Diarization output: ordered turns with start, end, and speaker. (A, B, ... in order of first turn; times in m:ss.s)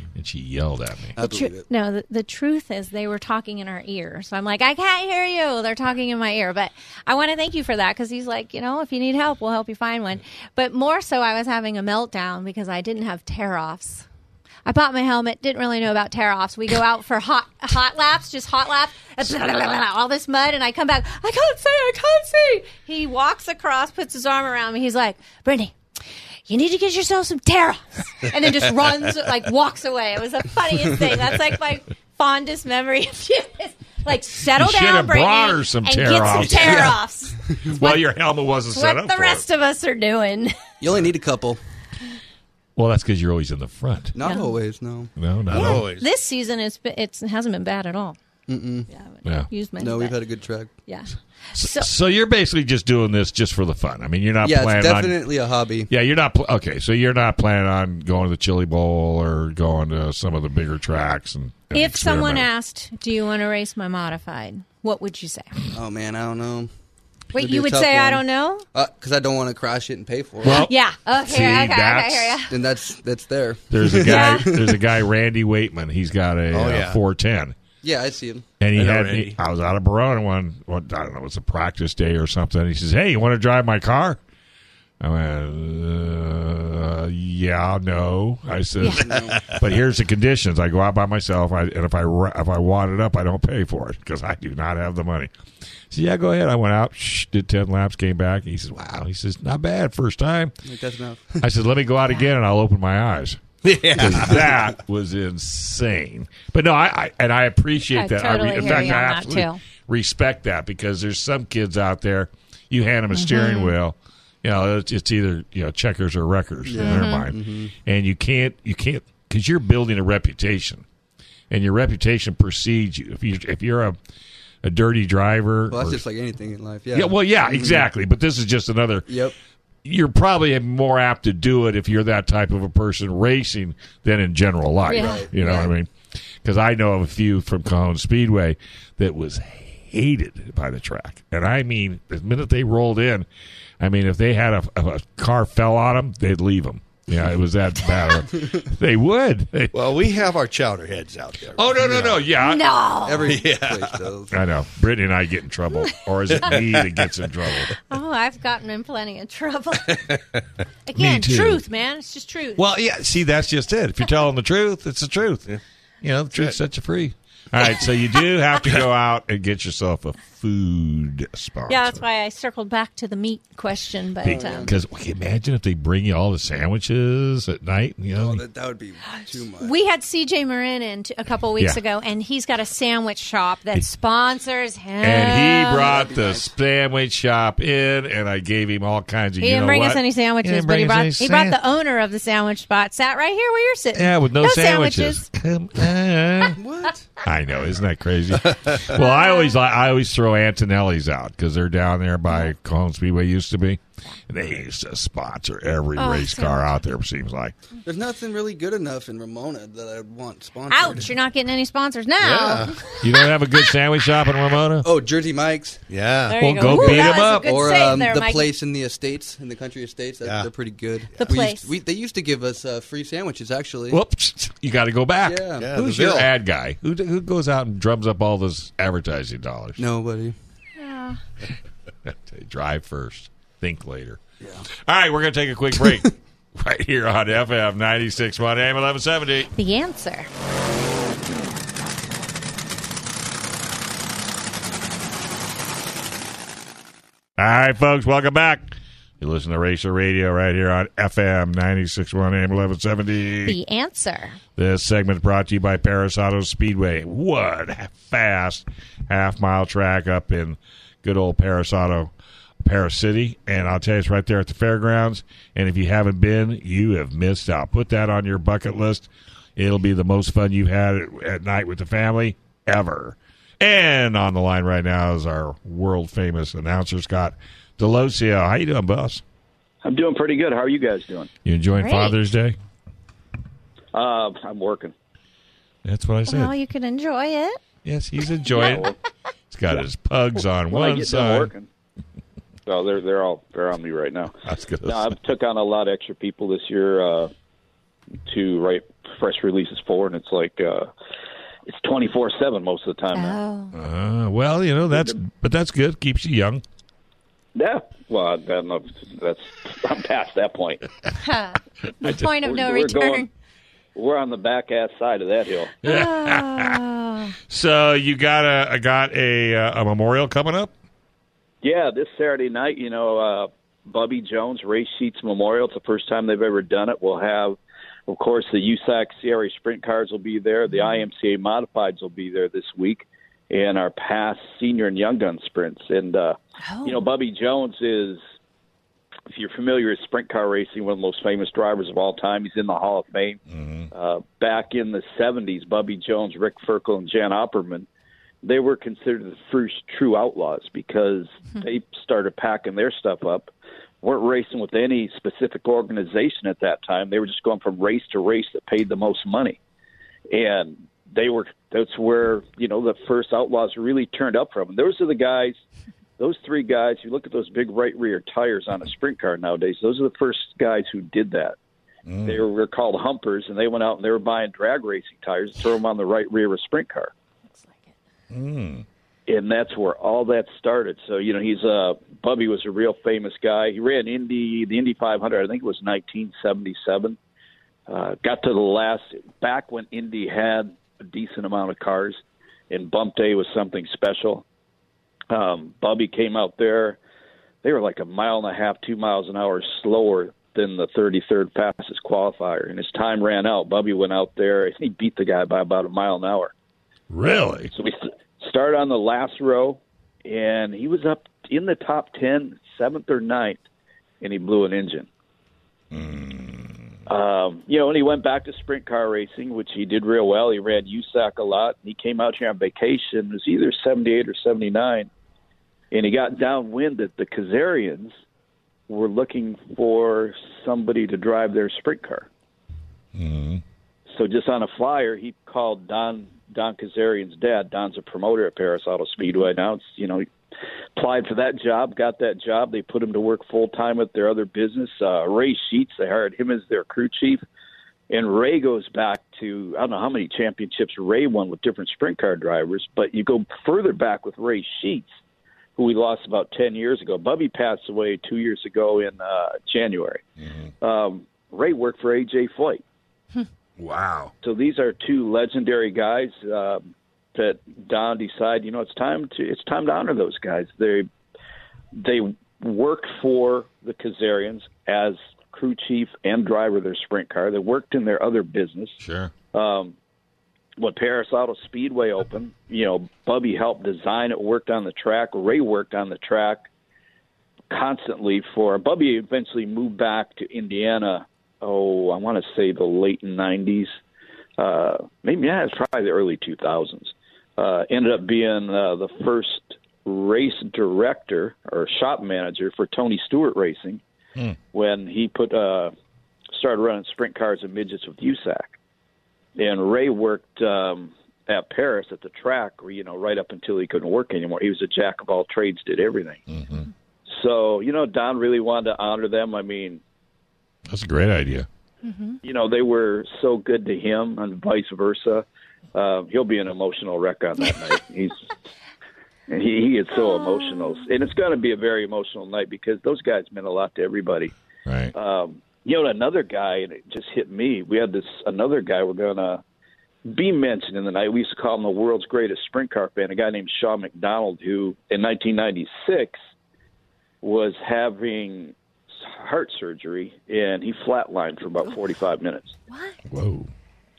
0:00.1-0:01.2 A
0:01.2-0:01.7 B
0:01.2-0:14.0 C
0:14.6-0:25.7 C
0:26.5-0:38.0 C
0:34.4-0:37.0 A
0:36.5-0:36.8 D
0:37.6-0:39.4 A
0:38.7-0:40.6 C
0:40.8-0:41.6 B
0:42.8-0:44.1 A
0:44.1-0:45.1 B
0:44.2-0:44.5 C
0:45.2-0:45.9 A
0:45.5-0:46.1 D
0:45.5-0:48.2 C
0:48.5-0:48.9 B
0:48.9-0:50.2 C
0:49.2-0:49.5 A
0:49.8-0:50.7 B
0:50.9-0:51.9 C
0:51.5-0:55.2 A
0:54.4-0:55.9 B
0:55.9-1:02.5 A
1:01.7-1:05.5 C
1:05.7-1:06.7 B
1:07.3-1:08.6 C
1:07.3-1:10.7 B
1:10.4-1:12.4 A
1:10.6-1:12.5 C
1:12.5-1:14.8 B
1:13.7-1:17.6 A
1:14.0-1:14.5 C
1:16.5-1:17.0 D
1:17.8-1:18.4 B
1:18.6-1:24.2 A
1:18.8-1:19.4 D
1:25.0-1:35.3 A
1:28.8-1:29.0 C
1:28.9-1:29.4 B
1:29.1-1:29.6 D
1:35.9-1:40.5 A
1:40.6-1:41.4 B
1:41.4-1:43.4 A
1:43.6-1:44.5 D
1:44.0-2:00.8 A
1:47.9-1:49.6 C
1:48.6-1:49.0 B
1:53.1-1:53.7 C
1:56.6-1:57.7 B
1:56.8-1:57.3 C
2:01.5-2:04.0 A
2:04.6-2:06.0 A
2:05.7-2:07.9 B
2:06.9-2:09.1 A
2:09.1-2:09.3 B
2:09.8-2:15.9 A
2:14.9-2:15.7 C
2:14.9-2:15.3 B
2:16.4-2:23.2 A
2:23.8-2:29.7 A
2:29.7-2:32.2 D
2:31.6-2:32.7 A
2:32.4-2:33.4 C
2:33.0-2:34.3 B
2:33.2-2:34.0 D
2:34.3-2:37.7 A
2:36.3-2:37.5 D
2:37.9-2:40.0 C
2:39.9-2:40.2 D
2:40.9-2:42.6 C
2:40.9-2:41.6 A
2:42.6-2:52.0 A
2:51.7-2:54.7 C
2:54.2-2:58.4 A
2:54.2-2:54.8 B
2:58.1-2:59.7 B
2:59.1-3:05.9 C
3:05.0-3:11.6 A
3:05.7-3:06.5 B
3:09.4-3:15.2 C
3:13.9-3:16.6 A
3:16.5-3:17.1 B
3:17.2-3:27.5 A
3:18.9-3:19.6 C
3:26.0-3:26.6 C
3:27.8-3:31.1 B
3:30.7-3:33.0 C
3:32.2-3:32.9 D
3:33.0-3:34.9 A
3:34.8-3:35.8 B
3:35.9-3:36.4 D
3:36.3-3:38.5 C
3:36.4-3:37.9 A
3:36.7-3:44.0 B
3:40.2-3:40.5 D
3:41.1-3:41.4 D
3:41.2-3:41.7 C
3:43.9-3:49.8 A
3:45.2-3:45.7 B
3:45.6-3:46.3 D
3:49.8-3:50.4 B
3:50.8-3:51.2 C
3:52.1-3:54.2 A
3:54.4-3:54.6 B
3:54.8-3:59.5 A
3:59.5-4:00.3 C
4:07.4-4:13.6 A
4:13.4-4:14.4 C
4:14.6-4:22.1 A
4:22.6-4:39.2 A
4:39.8-4:41.3 E
4:41.4-4:42.6 A
4:41.8-4:42.2 C
4:43.9-4:44.9 E
4:45.8-4:46.5 A
4:46.3-4:47.6 C
4:47.8-4:48.9 A
4:48.5-4:48.9 E
4:49.5-4:51.5 A
4:50.7-4:51.7 E
4:52.6-4:54.3 E
4:54.4-4:55.2 A
4:54.8-4:57.3 E
4:58.2-5:00.9 E
5:01.6-5:03.4 E
5:03.1-5:03.7 C
5:03.7-5:06.6 A
5:04.9-5:05.2 E
5:07.5-5:10.8 E
5:11.2-5:13.3 C
5:12.4-5:13.3 E
5:13.9-5:15.8 E
5:15.8-5:16.8 A
5:15.8-5:17.3 C
5:17.5-5:20.7 A
5:21.6-5:38.2 E
5:36.6-5:37.0 C
5:39.3-5:43.4 E
5:43.5-5:43.9 A
5:43.9-5:47.9 E
5:48.4-5:53.5 E
5:54.0-5:59.6 E
6:00.3-6:05.6 E
6:06.2-6:11.6 E
6:12.0-6:12.4 A
6:12.2-6:17.1 E
6:17.5-6:17.9 C
6:18.3-6:18.8 A
6:19.3-6:27.2 E
6:27.9-6:34.4 E
6:35.3-6:37.0 E
6:37.6-6:46.5 E
6:47.1-6:47.7 A
6:47.7-6:53.6 E
6:54.2-6:55.1 E
6:55.9-6:56.8 A
6:57.1-7:05.1 E
7:05.9-7:08.1 E
7:08.9-7:12.3 E
7:13.1-7:13.6 A
7:14.1-7:20.3 E
7:21.0-7:27.4 E
7:28.1-7:35.2 E
7:35.8-7:40.2 E
7:40.4-7:40.7 A
7:40.8-7:42.8 E
7:43.8-7:44.3 A
7:44.4-7:51.1 E
7:51.9-7:59.0 E
7:59.0-7:59.3 A
7:59.5-8:00.0 E
8:00.8-8:06.7 E
8:07.7-8:13.9 E
8:14.6-8:24.0 E
8:24.7-8:25.9 E
8:26.5-8:28.8 E
8:29.6-8:36.4 E
8:36.5-8:36.9 A
8:37.3-8:40.0 E
8:40.9-8:41.6 A
8:42.0-8:42.4 C
8:42.4-8:48.5 E
8:49.5-8:54.5 E
8:50.3-8:51.0 C
8:54.8-8:55.1 A
8:55.1-8:59.6 E
9:00.2-9:06.4 E
9:07.4-9:12.8 E
9:12.9-9:13.2 C
9:13.3-9:13.7 A